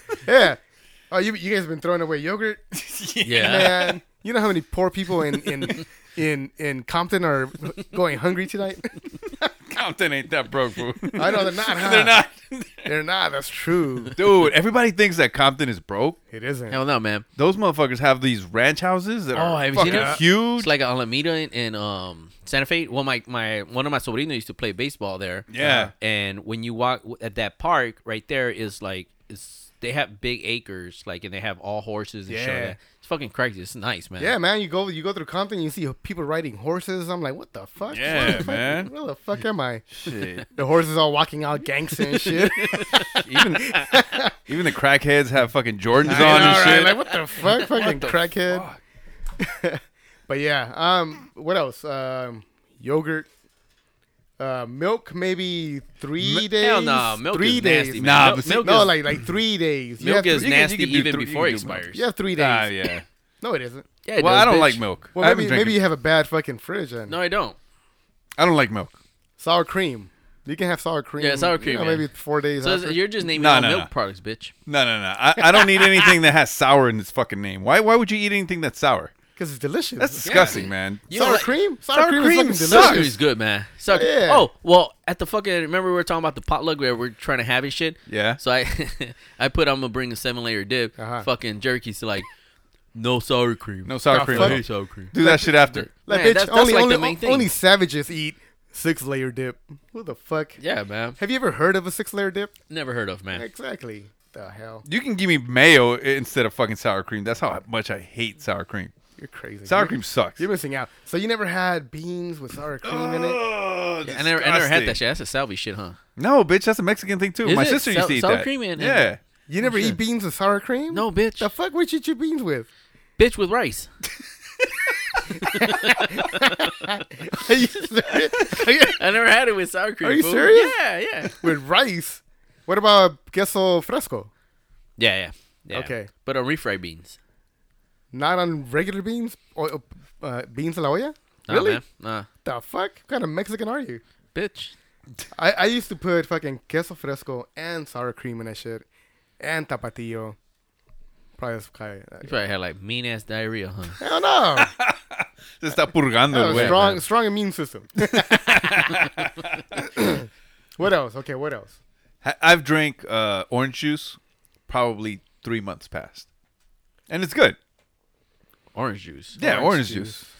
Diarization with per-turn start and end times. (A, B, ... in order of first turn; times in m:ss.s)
0:00.2-0:02.7 A
0:02.7-0:04.0 B
0:03.2-0:03.8 C
0:03.3-0:09.5 A
0:09.7-0:12.9 B
0:11.1-0:12.2 A
0:12.8-0:14.2 A
0:14.1-0:16.2 B
0:16.3-0:16.8 A
0:16.7-0:17.2 C
0:17.4-0:20.7 B
0:19.3-0:34.3 C
0:19.8-0:20.2 A
0:25.5-0:25.9 B
0:25.6-0:25.9 A
0:32.3-0:32.8 A
0:34.2-0:39.9 A
0:37.9-0:38.9 B
0:39.9-0:40.4 B
0:40.5-0:44.3 A
0:42.2-0:44.0 C
0:44.5-0:47.0 B
0:46.0-0:48.7 A
0:46.1-0:48.0 C
0:47.8-0:48.8 B
0:49.4-0:53.3 A
0:54.4-1:00.6 A
0:56.5-0:58.9 C
0:58.0-0:58.9 B
1:00.0-1:02.0 C
1:00.3-1:03.0 B
1:01.9-1:02.9 A
1:03.4-1:03.9 A
1:04.0-1:04.8 C
1:04.2-1:05.8 B
1:05.1-1:07.2 A
1:07.1-1:07.6 C
1:08.4-1:09.0 B
1:09.4-1:13.0 A
1:11.2-1:12.1 C
1:12.6-1:14.5 C
1:13.3-1:13.9 B
1:14.7-1:19.1 B
1:19.4-1:20.6 A
1:20.0-1:21.0 B
1:20.2-1:21.5 C
1:21.1-1:23.2 A
1:21.9-1:23.1 B
1:22.6-1:32.2 C
1:23.9-1:24.5 A
1:28.1-1:28.4 B
1:31.0-1:31.3 A
1:32.9-1:37.5 C
1:33.8-1:35.9 B
1:34.1-1:34.6 A
1:35.2-1:40.6 A
1:40.6-1:41.2 C
1:41.2-1:42.5 A
1:42.7-1:43.4 C
1:43.3-1:44.8 A
1:44.8-1:48.9 B
1:49.2-1:53.4 A
1:49.6-1:50.4 B
1:52.8-1:55.0 B
1:54.0-1:56.0 C
1:56.2-1:59.2 B
1:57.4-1:59.0 C
1:59.5-2:02.7 A
1:59.6-1:59.9 C
2:00.9-2:01.5 C
2:03.2-2:03.9 C
2:05.4-2:09.0 A
2:05.4-2:06.9 C
2:08.9-2:11.4 C
2:10.0-2:10.8 A
2:11.4-2:14.3 A
2:15.0-2:17.2 C
2:15.7-2:16.1 A
2:18.1-2:21.8 A
2:21.5-2:22.3 C
2:22.4-2:24.0 A
2:24.3-2:24.7 C
2:25.3-2:28.8 A
2:29.4-2:30.4 A
2:31.4-2:32.4 A
2:32.2-2:34.0 C
2:34.0-2:34.7 A
2:34.6-2:37.0 B
2:36.3-2:38.8 A
2:36.5-2:37.0 C
2:38.1-2:39.8 B
2:39.8-2:41.8 A
2:42.2-2:44.2 B
2:44.7-2:46.3 B
2:47.1-2:47.6 B
2:48.7-2:50.1 C
2:49.4-2:50.2 B
2:49.4-2:50.1 A